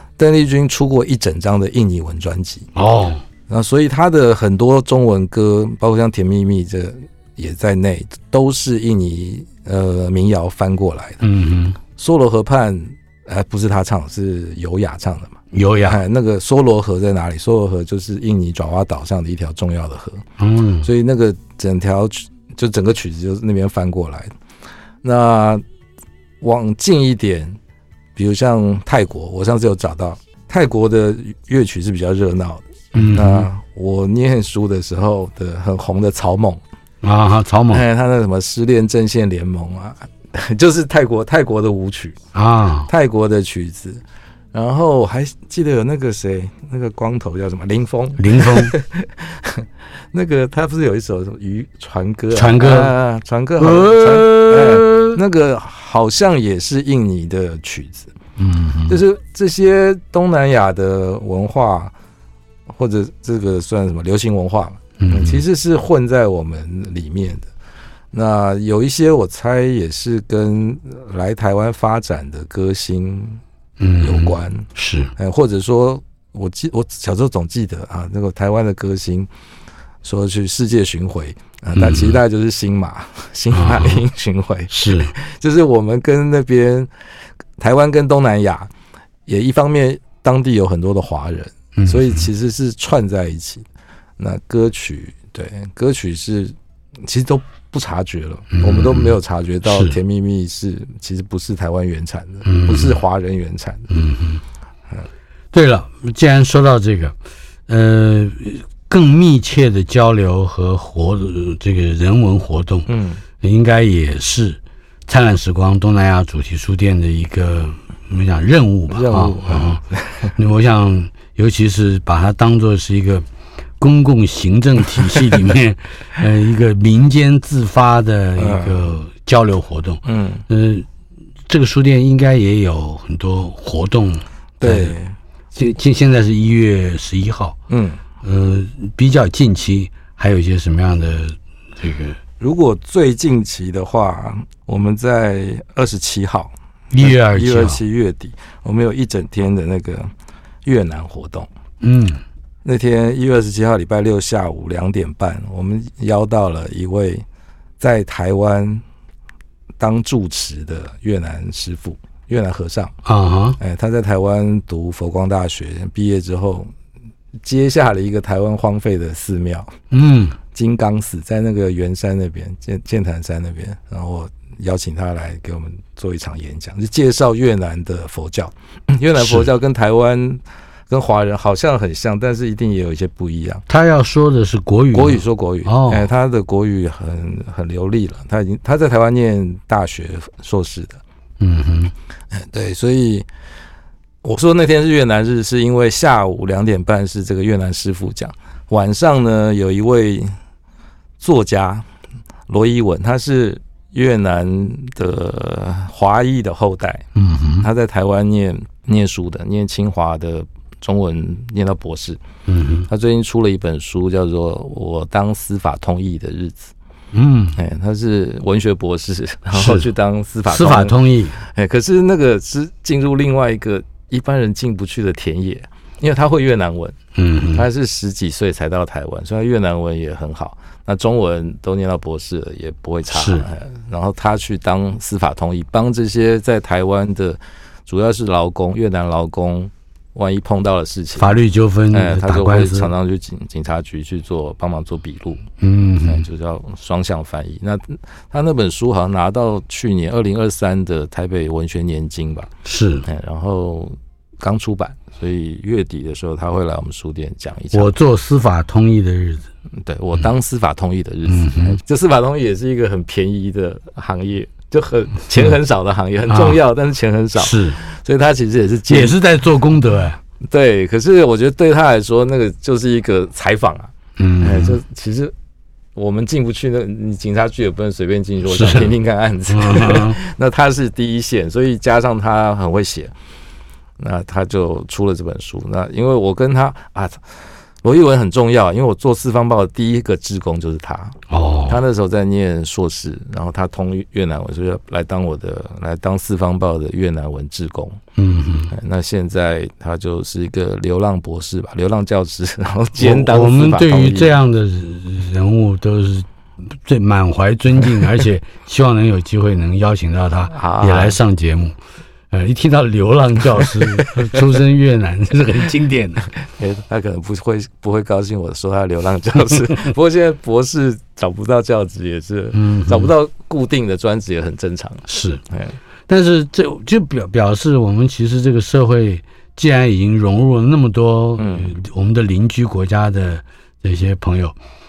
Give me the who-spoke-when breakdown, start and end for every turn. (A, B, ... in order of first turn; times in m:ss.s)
0:00.2-0:02.7 A
0:02.8-0:03.2 B
0:03.5-0:11.2 A
0:11.2-0:11.8 B
0:12.0-0:20.2 A
0:15.5-0:16.0 B
0:20.4-0:20.9 B
0:20.8-0:24.3 A
0:25.0-0:25.6 A
0:26.4-0:27.6 A
0:28.2-0:36.6 A
0:32.9-0:33.5 B
0:37.0-0:37.8 B
0:37.7-0:42.2 A
0:42.3-0:42.9 B
0:42.9-0:58.1 A
0:48.2-0:48.8 B
0:52.3-0:52.9 B
0:53.6-0:55.2 B
0:58.4-0:59.0 B
0:58.9-1:01.9 A
1:02.7-1:07.5 A
1:05.0-1:05.4 B
1:08.1-1:13.4 A
1:13.8-1:15.1 B
1:14.0-1:19.3 A
1:20.0-1:26.9 A
1:21.8-1:22.2 B
1:23.5-1:24.0 B
1:24.7-1:25.1 B
1:27.6-1:28.7 A
1:29.3-1:33.7 A
1:31.8-1:32.3 B
1:34.2-1:43.9 A
1:38.5-1:39.1 B
1:39.6-1:40.0 B
1:42.4-1:43.0 B
1:43.9-1:44.4 B
1:45.5-1:47.2 B
1:47.7-1:52.9 B
1:52.9-1:53.2 A
1:53.4-1:59.8 B
1:58.9-2:00.3 A
2:00.4-2:03.3 B
2:03.8-2:10.9 B
2:08.4-2:09.0 A
2:10.0-2:10.4 A
2:11.5-2:15.0 B
2:14.6-2:15.2 A
2:15.6-2:17.6 B
2:17.7-2:18.0 A
2:18.2-2:22.2 B
2:22.4-2:30.1 A
2:26.9-2:27.8 B
2:30.6-2:31.5 A
2:31.8-2:32.2 B
2:32.6-2:37.2 A
2:37.8-2:38.8 A
2:39.8-2:43.0 A
2:43.0-2:43.6 B
2:43.6-2:46.7 A
2:47.4-2:49.8 A
2:49.9-2:50.4 B
2:50.5-3:03.6 A
2:59.2-2:59.5 B
3:03.7-3:06.1 B
3:04.9-3:11.0 A
3:11.4-3:11.9 B
3:12.3-3:13.3 A
3:14.2-3:20.3 A
3:21.2-3:21.9 A
3:22.5-3:27.1 A
3:27.2-3:27.7 B
3:27.6-3:32.2 A
3:32.5-3:32.9 B
3:32.9-3:36.7 A
3:37.1-3:37.6 B
3:37.6-3:47.0 A
3:39.5-3:39.9 B
3:40.5-3:41.4 B
3:47.2-3:47.7 B
3:47.5-4:01.4 A
3:53.1-3:53.5 B
4:01.2-4:02.9 B
4:01.9-4:05.4 A
4:05.6-4:06.2 B
4:06.0-4:12.5 A
4:12.6-4:13.1 B
4:13.0-4:17.9 A
4:17.7-4:19.5 B
4:19.8-4:29.2 A
4:21.3-4:21.8 B
4:26.3-4:26.6 B
4:27.4-4:27.8 B
4:28.9-4:30.2 B
4:30.5-4:35.3 A
4:34.2-4:34.8 B
4:36.0-4:43.1 A
4:38.5-4:38.9 B
4:39.5-4:40.2 B
4:44.0-4:47.2 A
4:47.8-4:58.0 A
4:51.3-4:51.8 B
4:58.2-4:58.7 B
4:58.7-5:04.4 A
5:03.0-5:11.8 B
5:10.5-5:11.2 A
5:12.3-5:16.3 B
5:13.6-5:14.2 A
5:16.4-5:25.8 A
5:22.5-5:23.1 B
5:25.1-5:25.4 B
5:26.1-5:34.6 B
5:31.4-5:31.8 A